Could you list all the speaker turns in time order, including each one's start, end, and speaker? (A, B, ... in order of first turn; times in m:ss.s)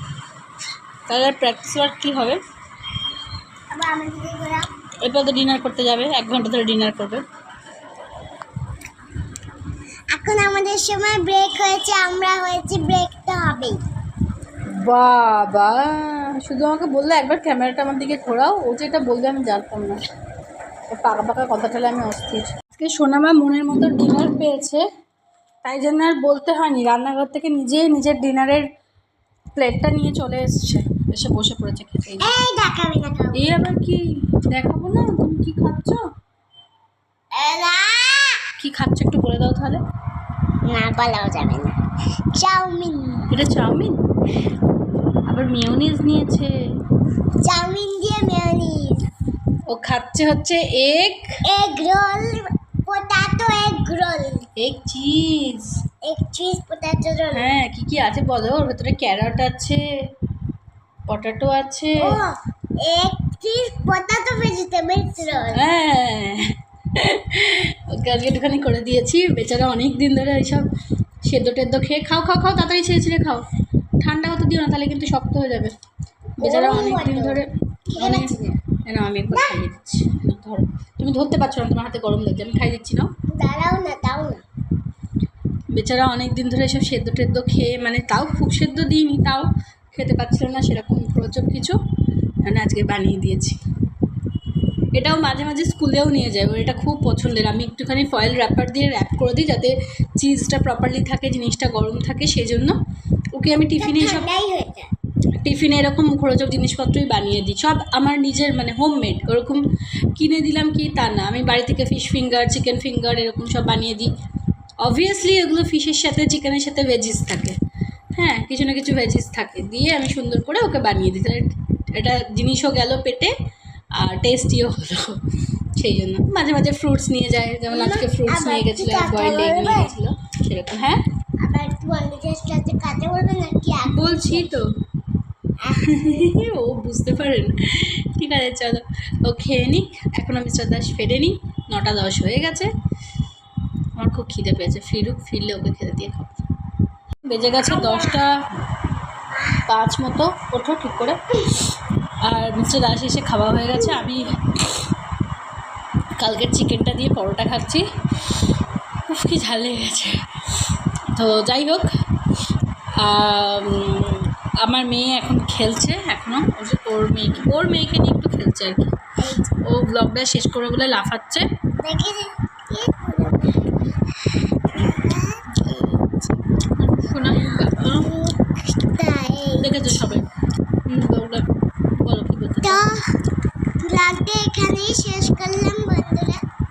0:01.1-0:02.4 A
0:03.7-0:04.7 B
0:05.0-0:07.2 A
0:10.1-0:13.8 B
0:14.8-0:20.0 A
0:20.9-0:24.8 A
0:25.6-0:28.7 A
0:29.5-0:32.3 A
0:32.2-0:33.5 B
0:33.3-0:36.0 A
0:37.3-0:38.4 B
0:38.6-0:39.8 A
0:40.6-0:41.7 B
0:42.3-0:43.3 B
0:43.3-0:44.0 A
0:45.3-0:46.5 A
0:47.4-0:49.0 B
0:49.7-0:51.2 A
0:51.4-0:54.4 B
0:54.6-0:55.8 A
0:56.0-0:57.5 B
0:57.3-0:59.8 A
1:01.1-1:02.2 A
1:02.0-1:05.6 B
1:05.5-1:10.7 A
1:11.2-1:13.4 A
1:14.0-1:15.7 A
1:16.4-1:18.3 A
1:16.4-1:18.6 B
1:18.8-1:23.1 A
1:23.3-1:24.4 B
1:25.7-1:31.8 A
1:32.4-1:33.6 A
1:34.9-1:42.8 A
1:43.3-1:44.3 A
1:43.8-1:44.9 B
1:45.4-1:49.6 A
1:50.1-1:54.1 A
1:54.8-1:57.6 A
1:58.1-2:03.3 A
2:04.0-2:05.2 A
2:05.8-2:11.0 A
2:07.7-2:09.9 B
2:11.4-2:14.5 B
2:13.9-2:14.6 A
2:15.6-2:16.3 B
2:15.8-2:22.7 A
2:24.0-2:26.4 A
2:27.2-2:28.4 A
2:27.6-2:28.2 B
2:29.7-2:31.2 A
2:32.2-2:34.6 A
2:36.2-2:37.8 A
2:39.1-2:41.9 A
2:43.0-2:48.9 A
2:49.2-2:49.5 B
2:49.6-2:51.4 A
2:51.8-2:55.6 B
2:56.6-2:58.1 A
2:57.4-3:00.1 B
2:59.6-3:00.3 A
3:00.9-3:02.8 A
3:02.6-3:03.1 B
3:03.8-3:06.4 B